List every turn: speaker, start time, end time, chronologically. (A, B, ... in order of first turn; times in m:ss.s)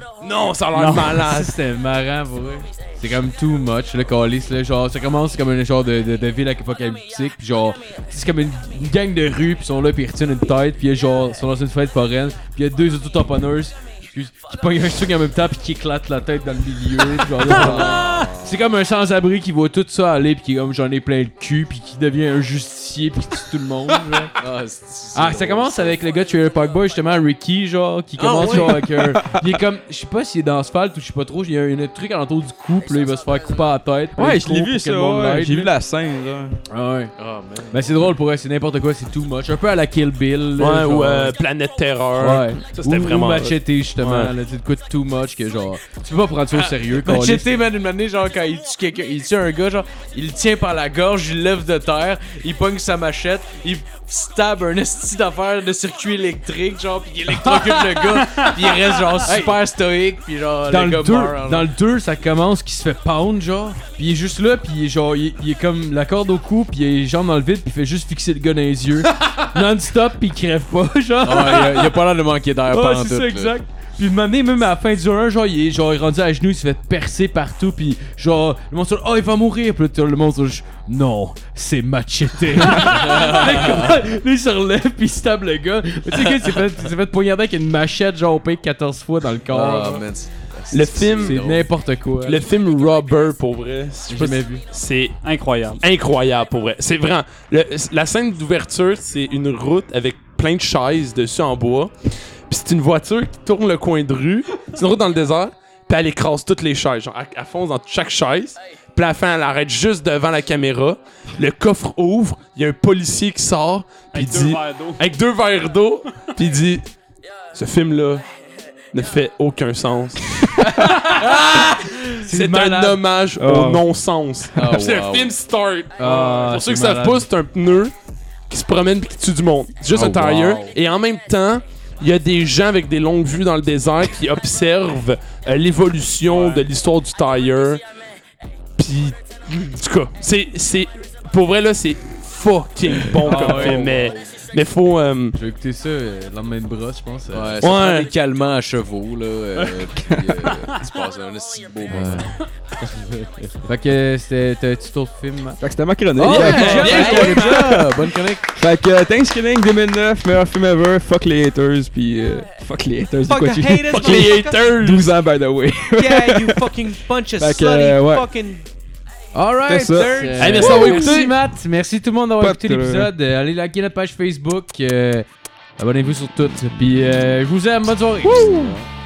0:00.2-0:01.6 A
0:00.7-0:01.5 B
0:01.1-0:24.3 C
0:17.4-0:18.6 D
0:24.4-0:26.0 D
0:25.1-0:35.7 C
0:28.2-0:28.9 D
0:28.5-0:29.1 E
0:34.2-0:36.6 E
0:36.7-0:37.1 C
0:37.2-0:38.0 D
0:37.7-0:41.3 C
0:40.6-0:44.3 A
0:42.2-0:47.6 C
0:46.5-1:01.7 D
0:57.3-0:59.7 C
0:58.3-0:58.5 B
1:00.7-1:12.0 C
1:11.2-1:13.6 D
1:12.7-1:30.1 C
1:22.7-1:24.0 D
1:26.3-1:26.6 D
1:29.5-1:31.7 D
1:30.7-1:31.6 A
1:31.2-1:32.5 C
1:32.2-1:35.2 A
1:34.1-1:34.6 C
1:35.2-1:35.8 B
1:35.8-1:56.8 A
1:54.1-1:55.0 B
1:57.5-1:58.2 A
1:58.9-2:07.9 A
2:00.6-2:03.0 C
2:03.4-2:03.8 E
2:04.6-2:05.4 D
2:06.0-2:07.2 C
2:08.5-2:17.8 A
2:09.9-2:10.7 C
2:10.0-2:10.4 D
2:16.3-2:16.7 B
2:18.8-2:25.4 A
2:23.2-2:24.2 C
2:23.4-2:23.9 D
2:25.3-2:27.6 C
2:27.3-2:33.7 D
2:27.6-2:28.1 A
2:30.0-2:30.4 E
2:31.9-2:32.4 C
2:33.6-2:35.6 C
2:35.6-2:48.3 E
2:36.2-2:37.9 C
2:36.2-2:38.5 D
2:43.4-2:44.4 F
2:43.8-2:45.1 A
2:46.0-2:48.5 F
2:47.0-2:48.1 D
2:49.3-2:55.3 C
2:49.7-2:51.2 E
2:50.4-2:51.4 A
2:52.4-2:53.1 E
2:55.8-2:58.7 C
2:58.2-2:58.8 B
2:58.4-2:58.7 D